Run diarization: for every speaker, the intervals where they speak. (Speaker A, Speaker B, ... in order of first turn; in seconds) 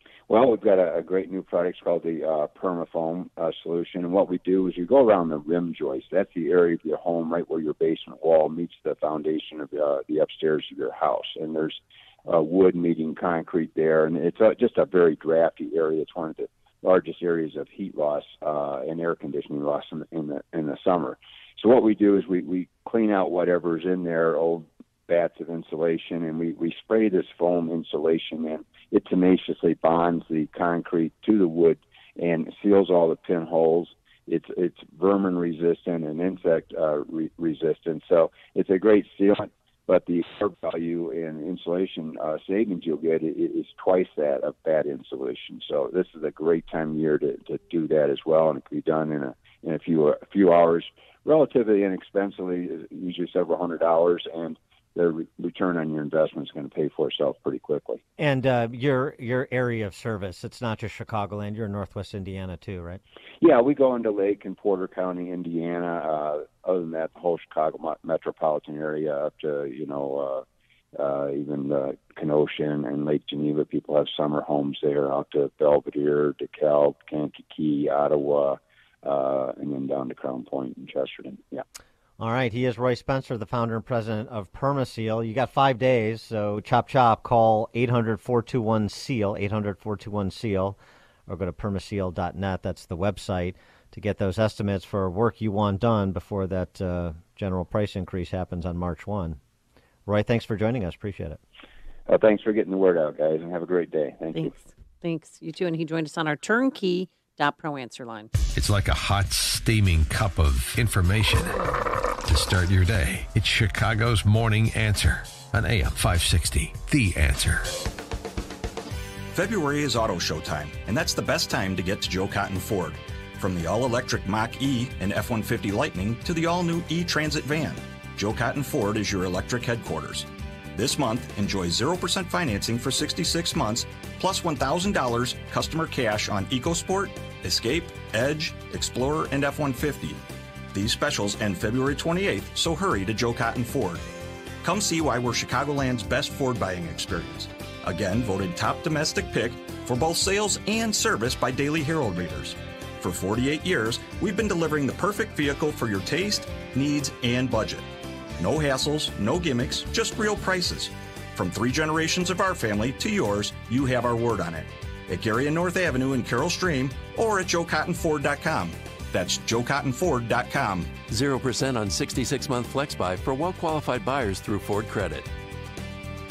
Speaker A: 0.3-58.0, 63.4-70.4, 71.0-81.6, 102.1-104.5
Speaker B: 58.2-63.0, 82.2-99.4, 100.1-101.4
Speaker C: 104.3-108.3
Speaker D: 108.5-111.5, 112.2-117.7
Speaker E: 119.3-140.2, 140.7-144.0, 144.6-157.9, 158.4-170.9
Speaker F: 171.1-175.3